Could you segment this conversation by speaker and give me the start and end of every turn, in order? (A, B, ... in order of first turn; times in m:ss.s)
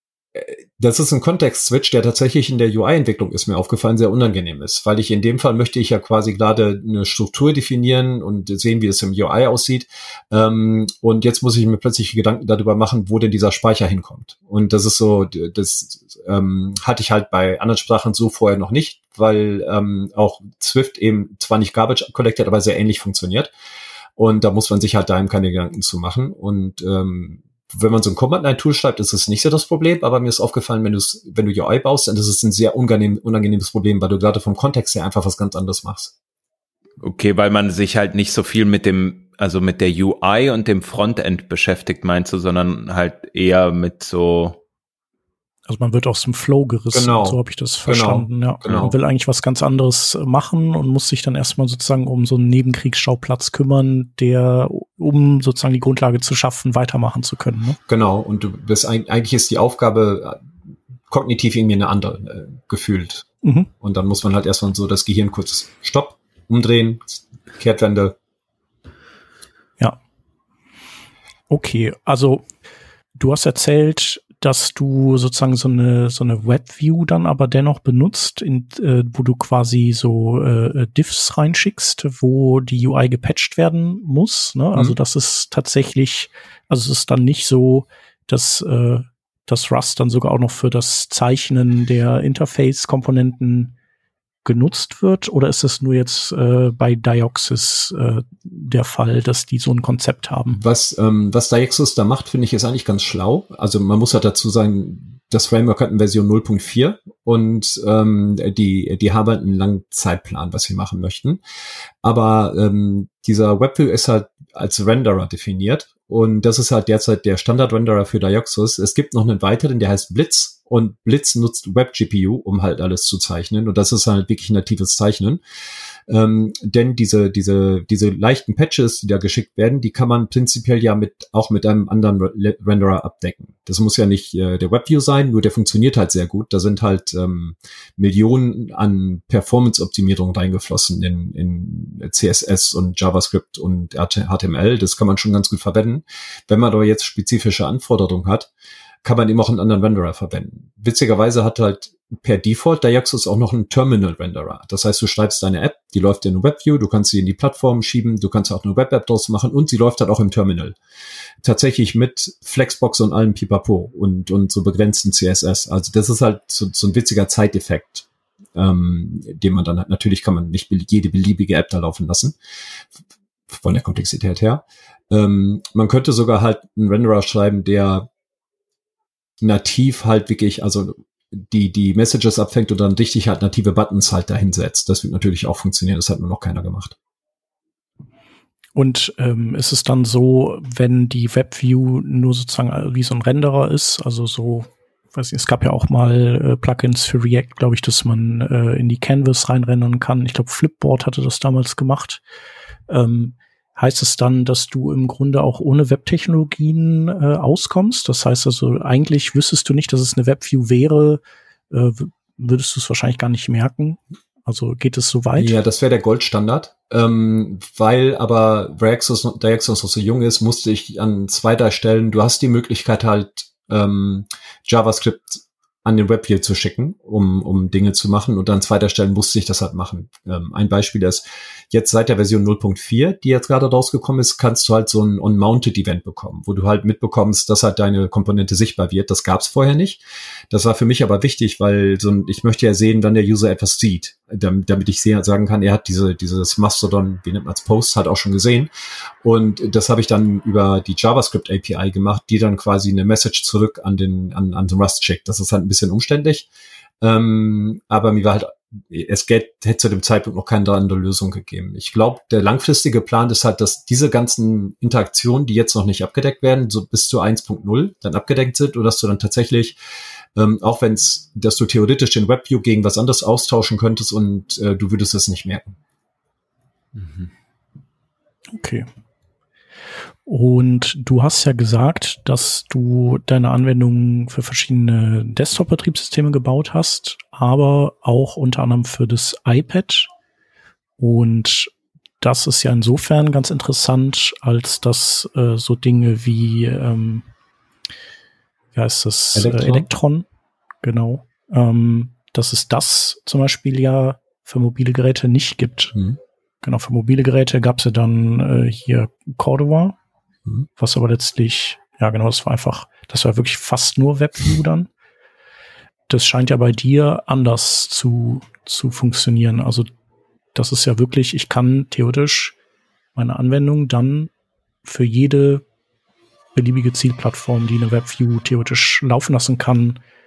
0:00.3-0:23.5 A
0:24.2-0:36.1 A
0:37.0-0:44.6 B
0:45.7-0:57.8 C
0:46.9-0:48.9 A
0:57.9-1:00.4 A
1:01.1-1:03.2 A
1:03.4-1:03.7 C
1:03.8-1:08.2 A
1:11.5-1:12.4 C
1:13.2-1:33.7 C
1:34.4-1:40.6 C
1:40.5-1:51.4 A
1:52.0-2:05.4 A
2:06.1-2:28.5 A
2:29.0-2:40.8 A
2:41.4-2:52.3 A
2:53.5-2:58.1 A
2:59.4-3:07.0 A
3:08.7-3:22.2 C
3:22.9-3:35.6 C
3:35.4-4:08.7 A
4:09.2-4:16.5 A
4:17.0-4:29.8 A
4:30.4-4:35.8 A
4:37.0-4:37.3 B
4:38.5-4:38.8 C
4:40.2-4:50.1 C
4:51.0-4:51.7 C
4:52.2-4:57.2 C
4:58.7-5:00.2 C
4:59.4-4:59.9 A
5:00.8-5:05.9 C
5:06.6-5:10.0 C
5:10.8-5:14.9 C
5:16.1-5:19.9 C
5:20.5-5:22.6 C
5:23.2-5:24.3 C
5:24.8-5:25.6 C
5:26.5-5:30.0 C